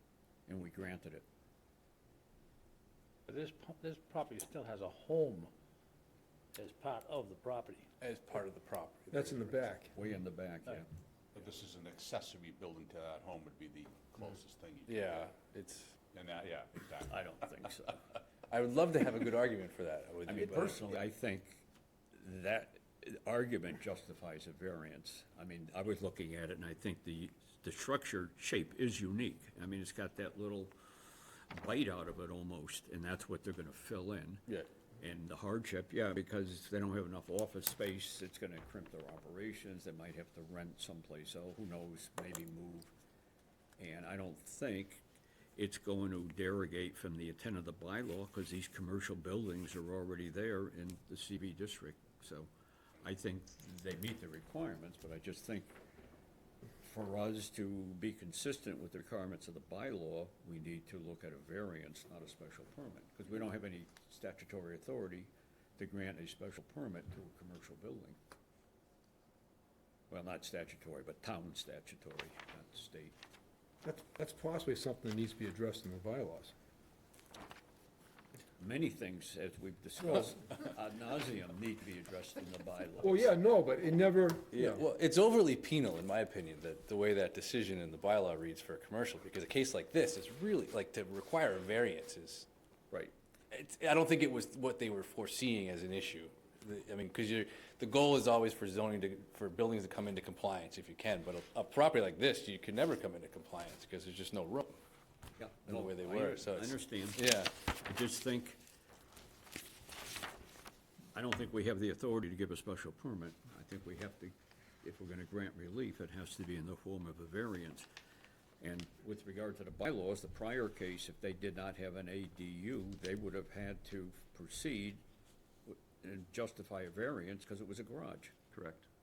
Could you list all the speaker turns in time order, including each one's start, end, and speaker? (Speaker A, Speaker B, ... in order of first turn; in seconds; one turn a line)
Speaker A: 0.5-1.2
Speaker B: 3.3-5.5
Speaker B: 6.6-7.9
Speaker C: 8.0-9.5
Speaker D: 9.1-9.9
Speaker A: 9.9-10.9
Speaker E: 11.3-15.3
Speaker C: 14.9-16.0
Speaker E: 16.1-17.3
Speaker A: 17.1-18.0
Speaker C: 18.5-20.8
Speaker A: 20.3-21.6
Speaker A: 22.2-34.5
Speaker A: 35.0-42.9
Speaker A: 43.8-45.0
Speaker A: 45.6-52.5
Speaker A: 53.0-55.7
Speaker A: 56.8-68.2
Speaker A: 70.1-73.2
Speaker D: 73.8-76.5
Speaker A: 78.6-83.3
Speaker D: 83.0-84.8
Speaker C: 84.5-92.5
Speaker C: 93.5-104.8
Speaker A: 105.4-108.6
Speaker C: 105.7-107.5
Speaker A: 111.1-117.9
Speaker A: 118.6-125.0
Speaker A: 125.7-128.4